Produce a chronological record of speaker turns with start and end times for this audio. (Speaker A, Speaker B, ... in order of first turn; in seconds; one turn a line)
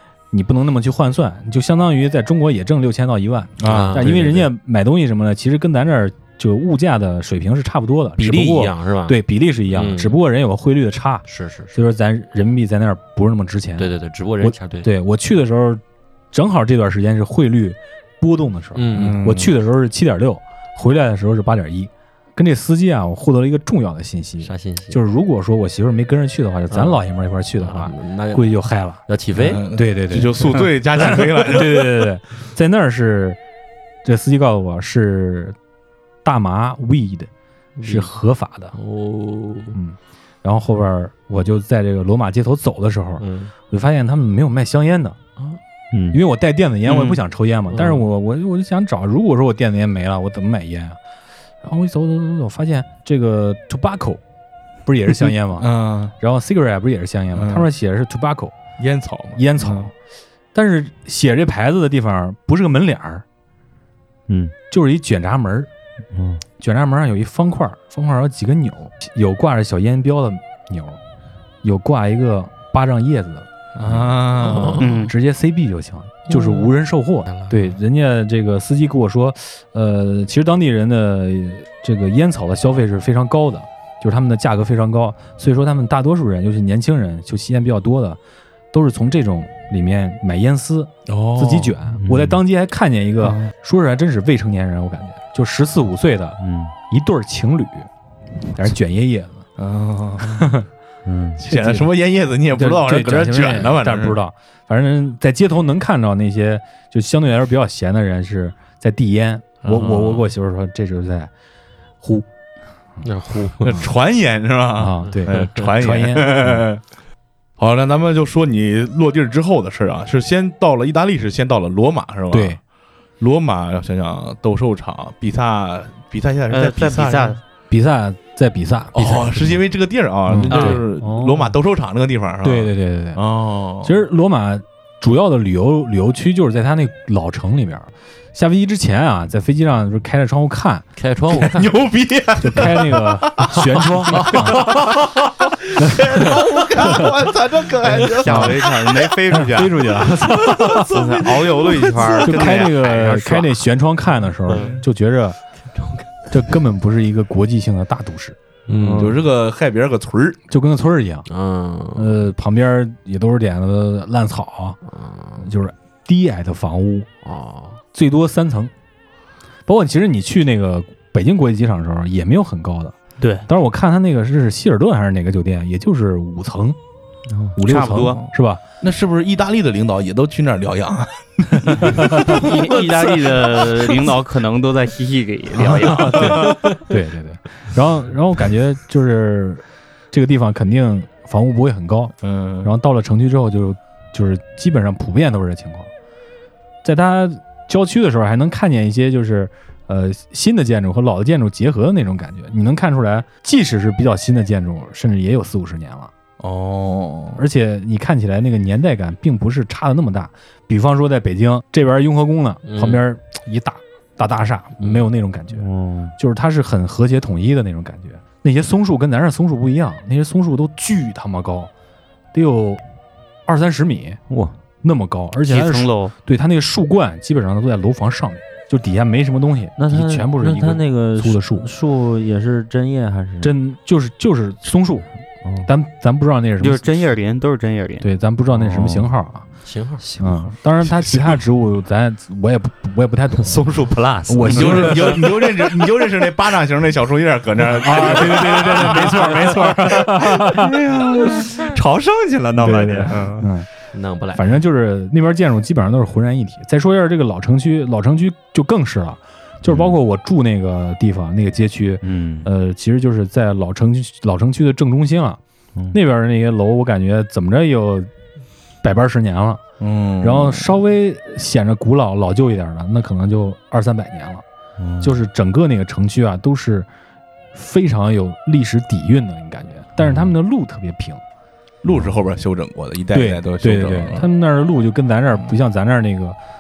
Speaker A: 0.3-13.9
Speaker B: 3.6-4.1
Speaker C: 3.6-4.5
Speaker C: 8.2-9.2
Speaker C: 9.7-10.2
Speaker C: 11.3-11.7
Speaker C: 13.8-14.9
Speaker A: 14.4-15.8
Speaker A: 16.3-33.4
Speaker C: 18.8-19.2
Speaker B: 18.9-19.5
Speaker C: 24.4-25.0
Speaker C: 26.7-27.0
Speaker C: 27.6-28.5
Speaker C: 29.1-29.7
Speaker B: 29.4-32.0
Speaker A: 34.0-35.6
Speaker A: 36.2-37.3
Speaker C: 37.8-38.1
Speaker A: 37.8-38.8
Speaker C: 38.7-39.8
Speaker A: 39.7-45.2
Speaker C: 43.2-43.5
Speaker D: 45.9-46.2
Speaker A: 46.1-51.0
Speaker C: 47.7-48.1
Speaker A: 51.6-54.2
Speaker A: 54.9-58.5
Speaker B: 55.6-56.1
Speaker B: 57.4-57.7
Speaker B: 58.8-59.9
Speaker A: 59.4-59.9
Speaker A: 60.5-63.2
Speaker D: 64.3-64.5
Speaker A: 64.7-65.7
Speaker D: 66.1-66.4
Speaker A: 66.6-71.0
Speaker A: 71.6-73.5
Speaker B: 73.8-74.9
Speaker C: 74.4-75.1
Speaker E: 74.8-75.1
Speaker A: 74.8-88.2
Speaker C: 76.3-76.7
Speaker C: 77.3-77.7
Speaker A: 88.7-96.4
Speaker B: 91.1-91.8
Speaker D: 92.0-92.4
Speaker B: 93.2-93.5
Speaker D: 96.4-96.7
Speaker A: 96.9-97.9
Speaker A: 98.5-99.4
Speaker B: 99.6-100.5
Speaker A: 100.2-100.7
Speaker D: 101.0-101.4
Speaker B: 101.4-104.2
Speaker A: 101.5-101.9
Speaker A: 102.5-111.3
Speaker B: 109.7-110.2
Speaker A: 112.0-112.3
Speaker C: 113.0-113.8
Speaker B: 113.7-116.8
Speaker A: 114.8-116.7
Speaker C: 115.3-115.6
Speaker B: 117.6-122.6
Speaker A: 122.3-122.6
Speaker B: 123.2-127.4
Speaker E: 126.5-127.4
Speaker A: 127.7-129.4
Speaker B: 128.9-133.9
Speaker A: 130.3-131.4
Speaker E: 130.5-130.8
Speaker D: 131.0-131.4
Speaker A: 132.4-133.2
Speaker A: 133.8-140.8
Speaker C: 141.0-141.7
Speaker B: 141.3-145.2
Speaker A: 142.4-144.7
Speaker C: 144.2-144.5
Speaker B: 145.8-149.2
Speaker A: 145.8-146.2
Speaker E: 148.0-150.0
Speaker A: 148.3-148.5
Speaker A: 149.3-151.0
Speaker B: 150.3-152.6
Speaker E: 150.8-153.6
Speaker A: 152.2-155.4
Speaker C: 154.5-154.8
Speaker B: 154.5-154.8
Speaker C: 155.8-156.1
Speaker A: 156.3-158.4
Speaker C: 158.7-159.2
Speaker D: 158.7-159.2
Speaker B: 159.0-160.4
Speaker A: 160.5-161.3
Speaker C: 161.3-162.1
Speaker A: 161.9-164.8
Speaker C: 164.9-165.5
Speaker A: 165.4-167.1
Speaker C: 167.2-167.8
Speaker A: 167.9-168.7
Speaker A: 169.7-172.9
Speaker E: 173.2-173.5
Speaker A: 173.5-176.8
Speaker D: 177.3-177.5
Speaker A: 177.6-178.6
Speaker E: 177.7-178.2
Speaker B: 177.9-183.6
Speaker E: 181.7-186.5
Speaker A: 181.9-182.1
Speaker A: 185.6-195.9
Speaker B: 185.9-186.6
Speaker B: 192.2-192.7
Speaker A: 196.8-206.1
Speaker B: 206.4-207.4
Speaker A: 207.4-215.7
Speaker C: 212.7-213.0
Speaker C: 214.8-215.1
Speaker D: 215.6-216.1
Speaker A: 216.2-221.7
Speaker A: 222.3-222.8
Speaker A: 223.5-224.2
Speaker D: 224.3-224.6
Speaker A: 224.8-231.7
Speaker E: 225.5-226.1
Speaker D: 229.8-233.5
Speaker A: 233.4-235.1
Speaker D: 235.4-235.7
Speaker A: 235.6-236.8
Speaker E: 236.6-238.1
Speaker A: 238.0-239.5
Speaker D: 238.5-239.1
Speaker C: 239.7-240.0
Speaker D: 240.0-240.5
Speaker A: 240.2-243.7
Speaker D: 243.4-245.2
Speaker A: 244.3-245.7
Speaker B: 244.5-253.5
Speaker A: 247.8-250.7
Speaker A: 252.6-253.7
Speaker C: 253.9-254.5
Speaker A: 254.3-265.4
Speaker D: 262.0-262.5
Speaker A: 265.9-268.1
Speaker A: 268.8-269.6
Speaker B: 269.8-270.7
Speaker A: 270.2-274.4
Speaker D: 274.8-275.1
Speaker A: 275.0-276.9
Speaker A: 277.5-281.2
Speaker D: 280.0-280.3
Speaker B: 281.8-284.3
Speaker A: 283.1-286.4